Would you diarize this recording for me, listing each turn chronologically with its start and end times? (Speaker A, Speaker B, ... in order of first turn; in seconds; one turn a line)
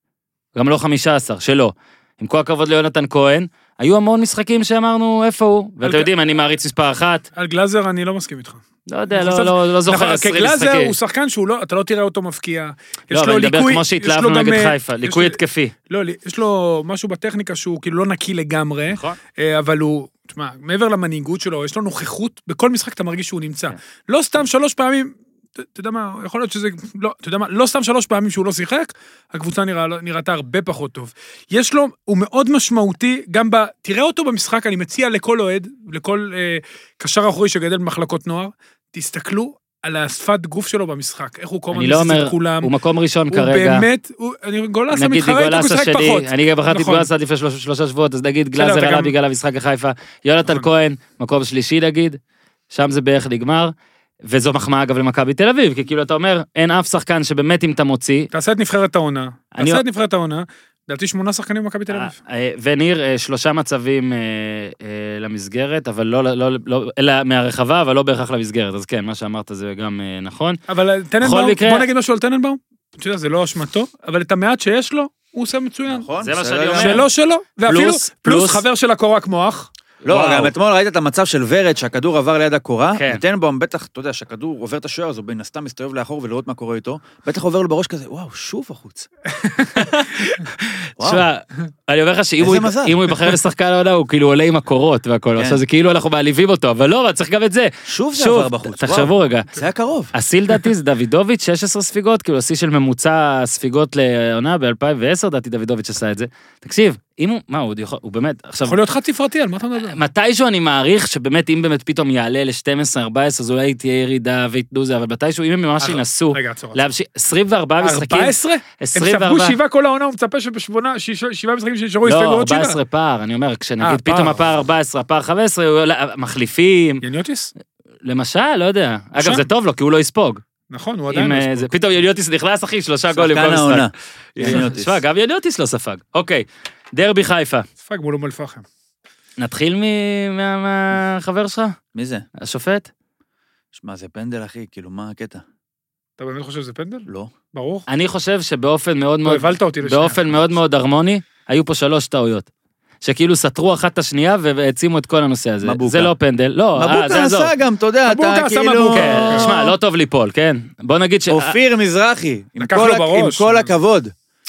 Speaker A: 0.5-7.2
Speaker B: 5.8-6.1
Speaker B: 7.3-15.4
Speaker A: 8.9-10.9
Speaker A: 13.1-15.7
Speaker B: 15.9-42.7
Speaker A: 18.9-19.2
Speaker A: 41.7-43.9
Speaker B: 43.3-47.1
Speaker A: 44.9-52.2
Speaker B: 48.5-49.1
Speaker A: 52.7-53.7
Speaker A: 54.3-58.3
Speaker B: 58.3-62.1
Speaker A: 59.5-59.8
Speaker A: 61.9-70.6
Speaker B: 70.7-76.1
Speaker A: 71.2-71.9
Speaker C: 75.9-77.0
Speaker A: 76.2-77.0
Speaker B: 76.8-79.7
Speaker A: 77.7-78.6
Speaker A: 80.0-80.5
Speaker C: 80.0-89.1
Speaker A: 82.9-83.2
Speaker A: 89.7-99.5
Speaker C: 91.0-91.2
Speaker C: 92.4-93.0
Speaker C: 97.8-100.1
Speaker A: 100.1-108.8
Speaker B: 108.6-110.0
Speaker A: 109.8-119.6
Speaker B: 115.8-116.8
Speaker B: 117.8-122.8
Speaker A: 122.0-127.0
Speaker B: 123.8-124.4
Speaker B: 127.0-127.5
Speaker A: 128.0-130.4
Speaker B: 129.2-129.4
Speaker B: 130.7-131.7
Speaker A: 131.1-137.7
Speaker C: 133.1-135.0
Speaker B: 137.8-138.6
Speaker A: 139.4-141.8
Speaker C: 141.9-142.2
Speaker A: 142.4-142.9
Speaker C: 143.7-145.4
Speaker B: 146.2-147.8
Speaker C: 147.1-147.3
Speaker A: 147.9-152.5
Speaker B: 149.2-150.5
Speaker A: 153.0-157.5
Speaker C: 155.6-156.1
Speaker C: 156.8-159.5
Speaker B: 158.1-159.7
Speaker A: 158.9-161.5
Speaker C: 161.3-164.1
Speaker B: 162.6-163.7